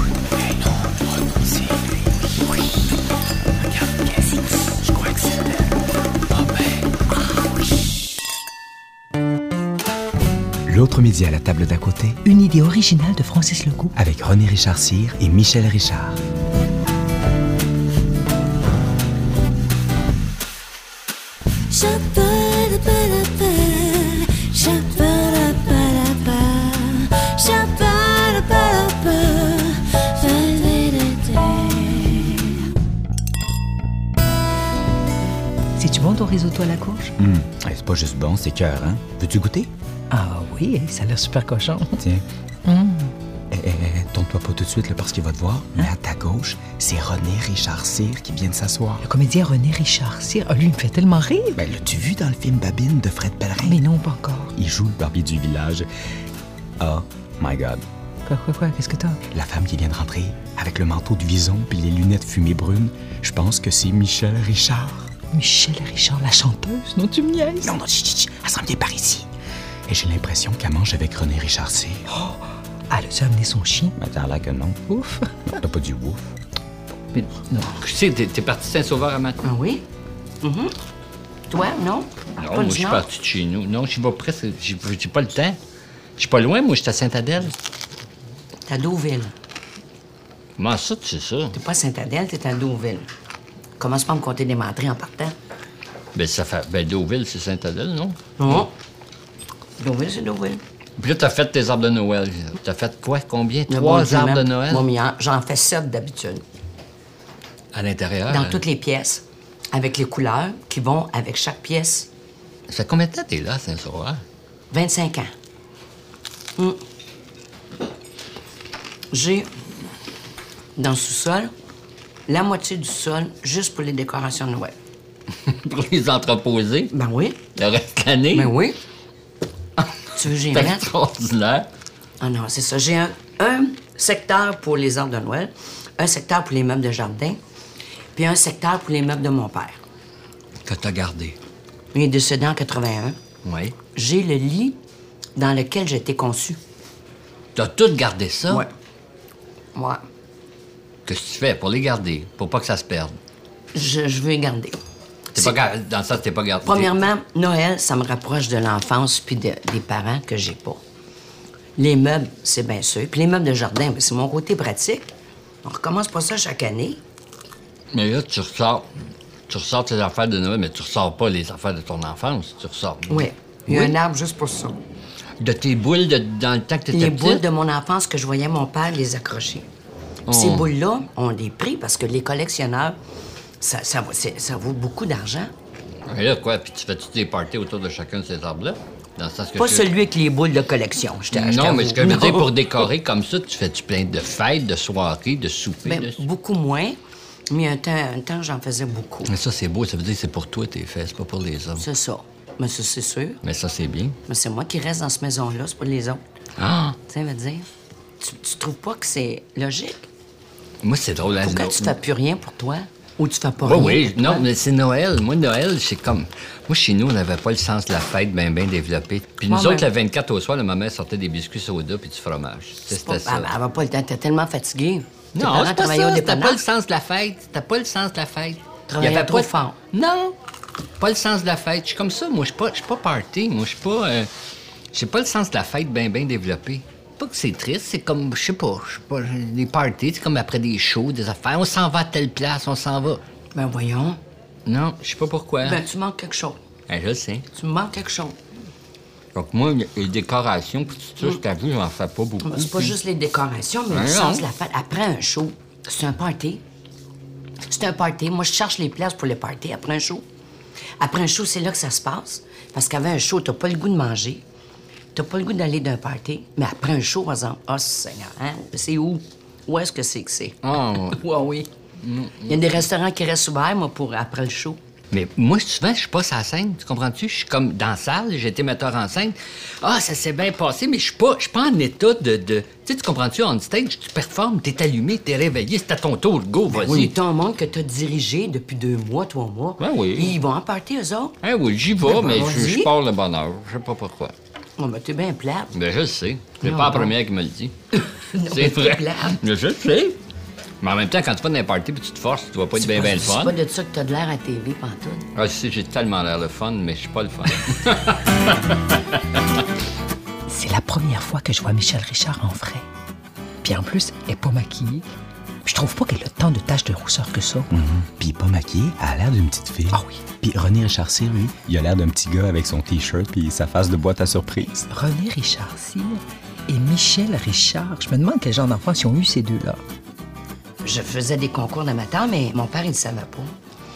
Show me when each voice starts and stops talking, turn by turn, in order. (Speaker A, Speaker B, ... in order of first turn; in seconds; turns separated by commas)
Speaker A: 1.3-1.9, Speaker A: 3.8-4.3, Speaker A: 4.9-5.5, Speaker A: 6.4-6.7, Speaker A: 10.7-12.2, Speaker B: 12.2-13.9, Speaker A: 13.9-16.2, Speaker B: 21.7-32.7, Speaker B: 35.8-37.1, Speaker A: 37.2-39.7, Speaker B: 40.1-42.0, Speaker A: 42.0-42.2, Speaker B: 42.6-43.1, Speaker A: 43.5-49.0, Speaker B: 49.0-51.6, Speaker A: 51.5-53.8, Speaker B: 53.6-54.5, Speaker A: 54.5-55.9, Speaker A: 56.8-57.8, Speaker B: 58.2-59.2, Speaker A: 59.3-65.1, Speaker B: 65.3-67.7, Speaker A: 67.6-69.3, Speaker A: 69.9-72.0, Speaker B: 72.1-72.3, Speaker B: 72.9-73.9, Speaker A: 74.0-74.9, Speaker B: 74.9-75.3, Speaker A: 75.5-76.3, Speaker B: 77.1-77.8, Speaker C: 77.8-79.4, Speaker D: 79.4-79.8, Speaker D: 80.4-80.7, Speaker D: 81.5-83.0, Speaker C: 82.4-85.6, Speaker C: 86.2-87.5, Speaker D: 88.7-89.3, Speaker C: 90.6-91.5, Speaker D: 91.5-93.1, Speaker D: 93.8-95.3, Speaker C: 96.1-98.7, Speaker D: 98.4-98.7, Speaker D: 99.8-100.6, Speaker C: 101.0-104.8, Speaker D: 103.7-106.4, Speaker C: 107.7-108.6, Speaker D: 108.3-112.1, Speaker C: 112.7-114.2, Speaker D: 114.7-115.3, Speaker D: 119.1-119.5, Speaker D: 120.8-121.5, Speaker D: 122.3-124.7, Speaker C: 125.5-126.9, Speaker D: 126.9-127.4, Speaker C: 127.5-128.5, Speaker D: 128.3-128.8, Speaker D: 130.1-130.9, Speaker C: 130.5-131.7, Speaker D: 132.2-137.4, Speaker D: 138.1-139.8, Speaker C: 140.7-141.3, Speaker D: 141.9-143.2, Speaker C: 143.4-143.7, Speaker D: 143.9-144.8, Speaker D: 145.3-146.6, Speaker C: 147.6-148.6, Speaker D: 149.7-150.0, Speaker C: 151.1-153.2, Speaker D: 153.7-154.8, Speaker C: 155.3-156.9, Speaker D: 156.6-160.8, Speaker D: 161.8-165.1, Speaker D: 165.6-167.0, Speaker C: 167.9-168.8, Speaker C: 169.5-173.9, Speaker D: 173.1-174.8, Speaker C: 175.4-177.4, Speaker D: 176.9-179.7, Speaker C: 180.3-180.7, Speaker D: 180.3-183.0, Speaker D: 183.6-185.5, Speaker C: 186.1-189.9, Speaker D: 189.6-192.5, Speaker C: 191.3-196.2, Speaker D: 195.8-197.0, Speaker D: 197.5-199.3, Speaker C: 199.3-201.8, Speaker D: 201.8-203.4, Speaker C: 203.4-204.2, Speaker D: 204.3-206.2, Speaker C: 206.6-207.0, Speaker D: 207.1-207.7, Speaker D: 208.2-210.1, Speaker C: 210.8-211.9, Speaker D: 211.4-214.4, Speaker C: 213.6-223.5, Speaker D: 219.5-219.9, Speaker D: 222.9-226.6, Speaker C: 225.3-230.3, Speaker D: 228.9-229.8, Speaker C: 231.0-234.3, Speaker C: 234.9-243.2, Speaker D: 243.5-244.2, Speaker C: 244.7-245.8, Speaker D: 245.6-246.6, Speaker C: 246.9-247.4, Speaker D: 247.5-248.3, Speaker C: 249.3-252.9, Speaker D: 252.4-256.6, Speaker C: 253.9-254.4, Speaker D: 257.7-260.2, Speaker D: 261.0-264.4, Speaker D: 265.1-271.7, Speaker C: 270.6-271.2, Speaker C: 272.0-272.7, Speaker D: 272.5-274.8, Speaker C: 275.1-287.1, Speaker D: 286.7-291.4, Speaker C: 289.8-290.4, Speaker C: 291.4-294.3, Speaker D: 292.0-292.9, Speaker D: 294.8-295.7, Speaker C: 295.7-297.7, Speaker D: 296.6-297.1, Speaker D: 297.9-299.4, Speaker C: 298.4-300.2, Speaker C: 300.8-303.5, Speaker D: 302.8-305.2, Speaker C: 305.4-309.0, Speaker B: 310.5-312.8, Speaker B: 313.6-315.0, Speaker B: 315.6-317.7, Speaker A: 317.7-324.9, Speaker B: 319.9-320.2, Speaker B: 324.9-329.8, Speaker D: 330.8-333.5